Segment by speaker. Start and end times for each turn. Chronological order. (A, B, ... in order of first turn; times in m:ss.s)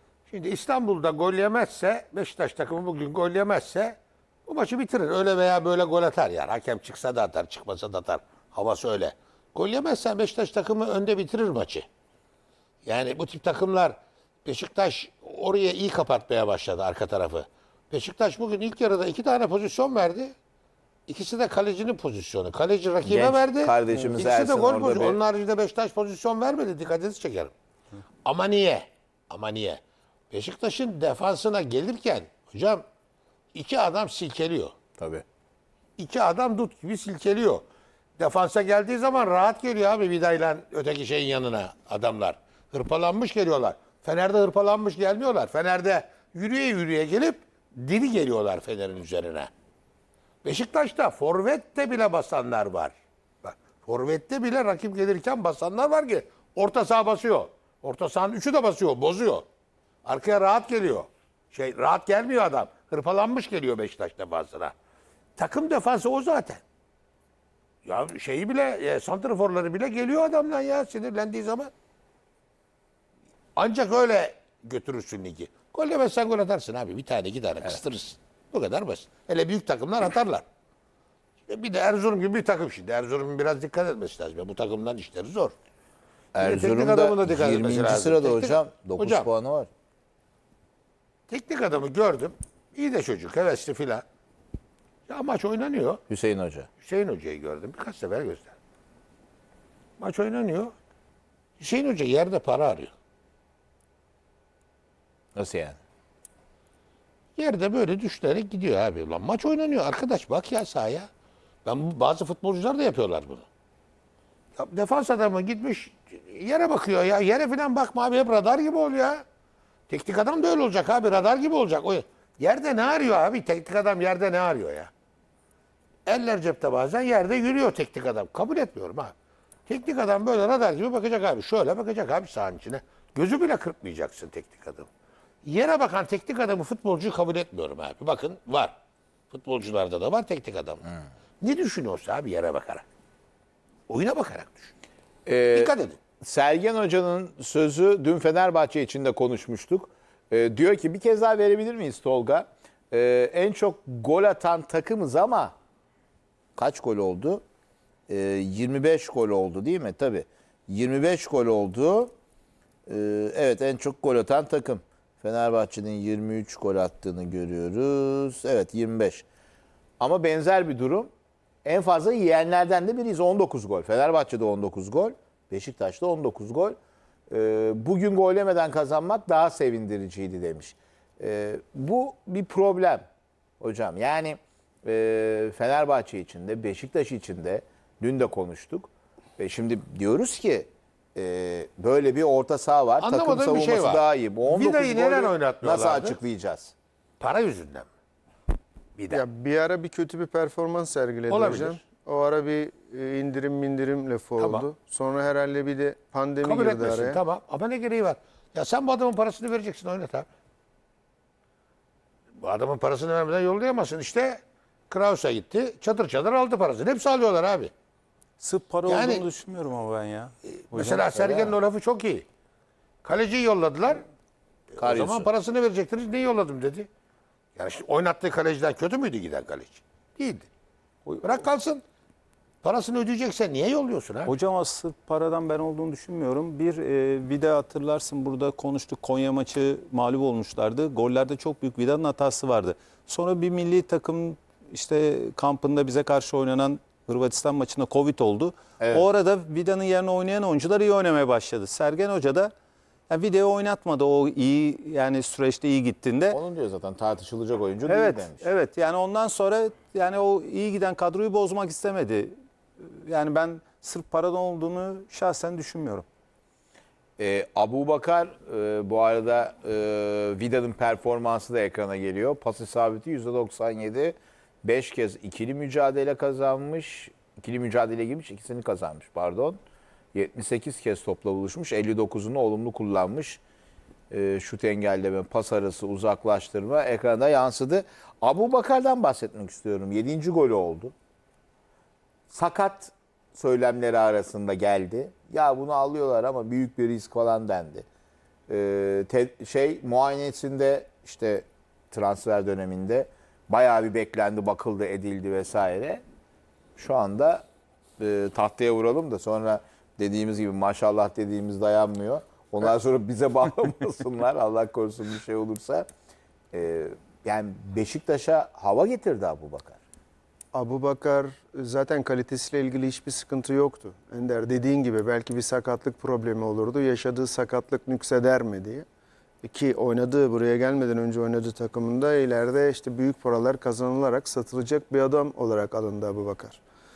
0:00.3-0:11.9 A
0:12.8-0:20.3 A
0:21.1-0:27.5 A
0:23.0-0:25.2 B
0:28.2-0:32.8 A
0:33.5-0:34.8 A
0:35.0-0:35.2 B
0:36.0-0:37.6 A
0:38.2-0:49.5 A
0:50.4-0:59.5 A
1:00.0-1:04.7 A
1:05.4-1:06.6 A
1:07.8-1:11.7 A
1:13.6-1:20.4 A
1:21.5-1:25.6 A
1:26.4-1:29.7 B
1:26.4-1:29.3 A
1:31.3-1:34.0 A
1:35.1-1:36.0 A
1:36.1-1:36.7 B
1:36.8-1:38.5 A
1:40.0-1:40.8 A
1:41.6-1:42.9 A
1:45.4-1:45.8 B
1:47.4-1:51.1 A
1:51.6-1:53.5 A
1:54.6-1:59.2 A
1:59.9-2:04.9 A
2:06.1-2:09.1 A
2:09.7-2:14.9 A
2:15.4-2:18.8 A
2:19.3-2:20.9 A
2:21.4-2:22.8 A
2:23.9-2:24.7 A
2:25.3-2:35.5 B
2:25.5-2:26.0 A
2:36.6-2:37.4 B
2:38.1-2:42.1 B
2:42.9-2:49.2 B
2:50.0-2:51.1 B
2:51.6-2:56.8 B
2:57.3-3:03.0 B
3:03.6-3:16.7 B
3:13.0-3:16.2 A
3:17.2-3:17.9 A
3:19.0-3:19.2 A
3:19.1-3:27.2 C
3:21.3-3:21.8 A
3:24.4-3:24.7 A
3:26.4-3:30.3 A
3:32.4-3:37.7 A
3:38.4-3:41.1 D
3:38.9-3:39.3 A
3:40.5-3:42.3 A
3:41.1-3:41.5 B
3:43.0-3:44.0 A
3:44.8-3:46.9 A
3:44.8-3:45.3 B
3:47.6-3:50.5 A
3:51.1-3:51.4 D
3:51.2-3:51.8 A
3:52.6-3:54.4 A
3:54.3-4:12.5 D
4:08.8-4:09.1 B
4:13.1-4:16.4 D
4:16.3-4:18.5 B
4:17.9-4:26.1 D
4:27.2-4:39.6 B
4:40.1-4:43.4 B
4:44.1-4:50.9 B
4:52.3-4:57.9 B
4:58.5-5:06.0 B
5:06.8-5:07.4 B
5:08.0-5:15.9 B
5:16.5-5:19.8 B
5:20.5-5:28.9 C
5:29.4-5:36.6 C